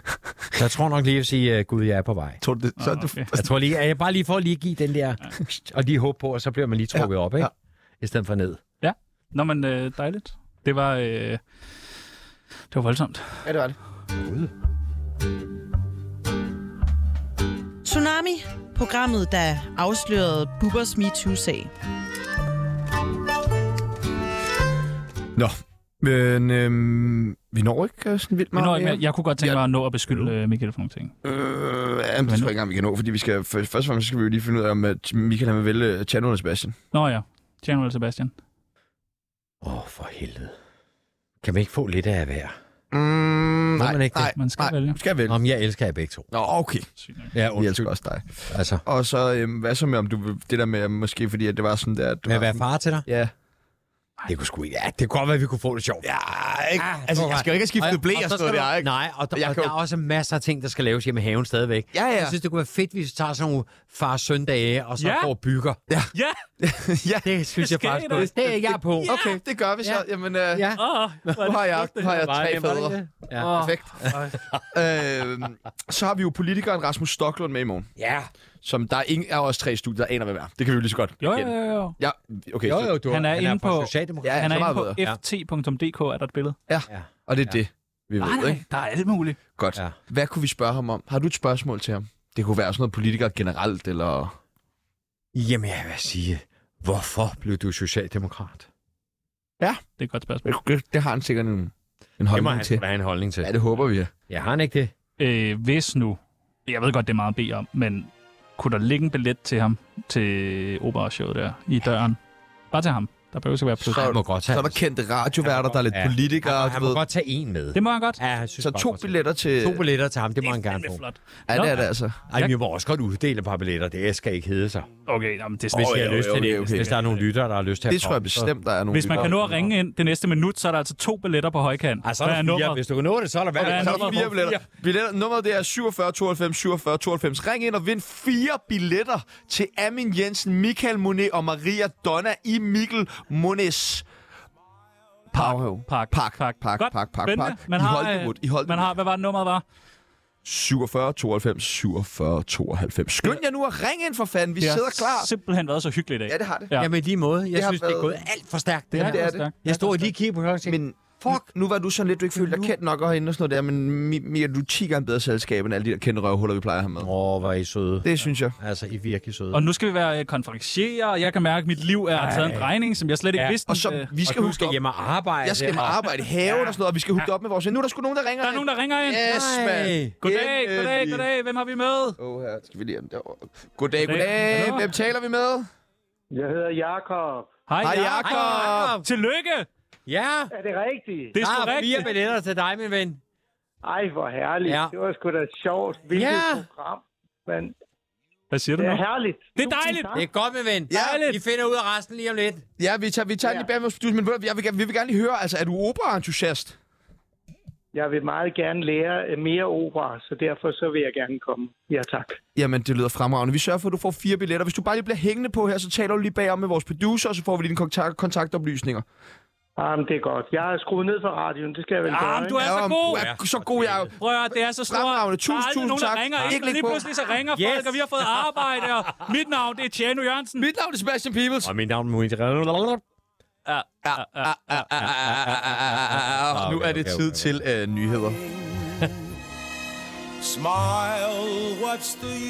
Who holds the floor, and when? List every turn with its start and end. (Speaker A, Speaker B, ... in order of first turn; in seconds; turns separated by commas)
Speaker A: 0.5-2.4, Speaker B: 2.4-3.6, Speaker C: 2.8-3.3, Speaker A: 3.3-8.6, Speaker B: 6.9-7.5, Speaker C: 8.8-11.4, Speaker C: 12.7-13.4, Speaker B: 13.4-13.8, Speaker D: 17.8-21.7, Speaker B: 25.4-30.3, Speaker C: 28.5-31.1, Speaker B: 31.2-36.8, Speaker C: 32.2-32.5, Speaker C: 36.9-38.3, Speaker A: 39.6-40.5, Speaker A: 41.4-42.5, Speaker B: 42.9-45.4, Speaker A: 43.8-44.3, Speaker C: 44.3-45.0, Speaker A: 45.3-46.3, Speaker B: 46.3-46.9, Speaker C: 47.0-47.3, Speaker A: 47.3-47.9, Speaker B: 47.5-53.3, Speaker A: 48.5-48.8, Speaker A: 52.2-53.0, Speaker A: 54.2-56.1, Speaker B: 56.0-59.7, Speaker A: 56.8-65.8, Speaker B: 61.9-62.4, Speaker C: 65.0-65.3, Speaker B: 65.9-67.3, Speaker C: 66.1-66.4, Speaker A: 67.2-69.2, Speaker C: 67.6-69.4, Speaker B: 69.0-70.7, Speaker A: 69.8-70.8, Speaker C: 70.8-72.1, Speaker B: 71.2-74.2, Speaker A: 72.0-74.6, Speaker C: 73.4-74.3, Speaker B: 74.7-77.9, Speaker A: 78.0-78.3, Speaker B: 78.6-82.9, Speaker C: 81.2-82.0, Speaker A: 82.6-85.2, Speaker C: 83.1-86.6, Speaker B: 84.2-85.0, Speaker B: 86.7-88.6, Speaker A: 86.9-87.6, Speaker C: 88.2-89.4, Speaker B: 89.6-94.3, Speaker A: 95.3-98.7, Speaker C: 100.0-100.4, Speaker B: 100.4-102.8, Speaker A: 102.3-103.5, Speaker B: 103.4-104.1, Speaker A: 104.3-104.9, Speaker C: 105.2-112.2, Speaker C: 112.7-114.1, Speaker B: 113.8-117.0, Speaker A: 113.9-114.8, Speaker A: 115.9-121.0, Speaker C: 117.7-118.2, Speaker B: 118.6-119.8, Speaker C: 120.4-122.5, Speaker B: 121.5-122.2, Speaker A: 122.3-124.9, Speaker C: 125.1-127.2, Speaker A: 125.7-128.5, Speaker B: 125.7-126.9, Speaker B: 127.9-129.6, Speaker C: 128.9-132.8, Speaker A: 129.1-129.6, Speaker A: 132.0-134.6, Speaker C: 133.6-134.2, Speaker B: 133.6-144.1, Speaker B: 145.3-148.9, Speaker C: 145.3-149.6, Speaker B: 150.4-155.3, Speaker C: 154.6-156.9, Speaker B: 156.3-156.7, Speaker A: 156.8-161.5, Speaker B: 157.5-158.2, Speaker C: 158.9-160.1, Speaker B: 158.9-159.5, Speaker B: 160.6-167.1, Speaker A: 162.3-162.7, Speaker A: 167.0-169.7, Speaker B: 168.0-168.6, Speaker C: 169.5-174.1, Speaker A: 172.2-172.7, Speaker B: 173.7-174.8, Speaker A: 174.2-176.2, Speaker B: 175.4-181.3, Speaker C: 178.4-179.2, Speaker A: 179.2-180.2, Speaker C: 180.2-182.2, Speaker B: 182.2-185.7, Speaker C: 184.0-184.9, Speaker E: 186.3-187.5, Speaker C: 187.7-189.7, Speaker B: 187.8-188.9, Speaker A: 188.2-189.1, Speaker A: 190.1-190.5, Speaker E: 190.5-191.4, Speaker C: 191.3-192.1, Speaker A: 191.4-193.2, Speaker E: 193.8-197.7, Speaker A: 194.7-194.9, Speaker A: 196.1-196.7, Speaker C: 198.5-199.0, Speaker E: 198.8-200.3, Speaker C: 199.6-200.1, Speaker A: 200.1-202.6, Speaker B: 200.9-201.2, Speaker C: 200.9-201.4, Speaker B: 202.8-206.8, Speaker E: 203.4-203.7, Speaker E: 207.9-212.4, Speaker B: 212.6-219.0, Speaker E: 219.8-222.6, Speaker C: 222.0-223.3, Speaker B: 222.6-224.1, Speaker A: 223.1-224.1, Speaker C: 224.2-230.7, Speaker B: 224.9-227.0, Speaker A: 227.5-228.3, Speaker B: 230.6-231.7, Speaker A: 231.6-233.0, Speaker C: 233.7-234.9, Speaker B: 234.0-239.1, Speaker A: 235.0-237.5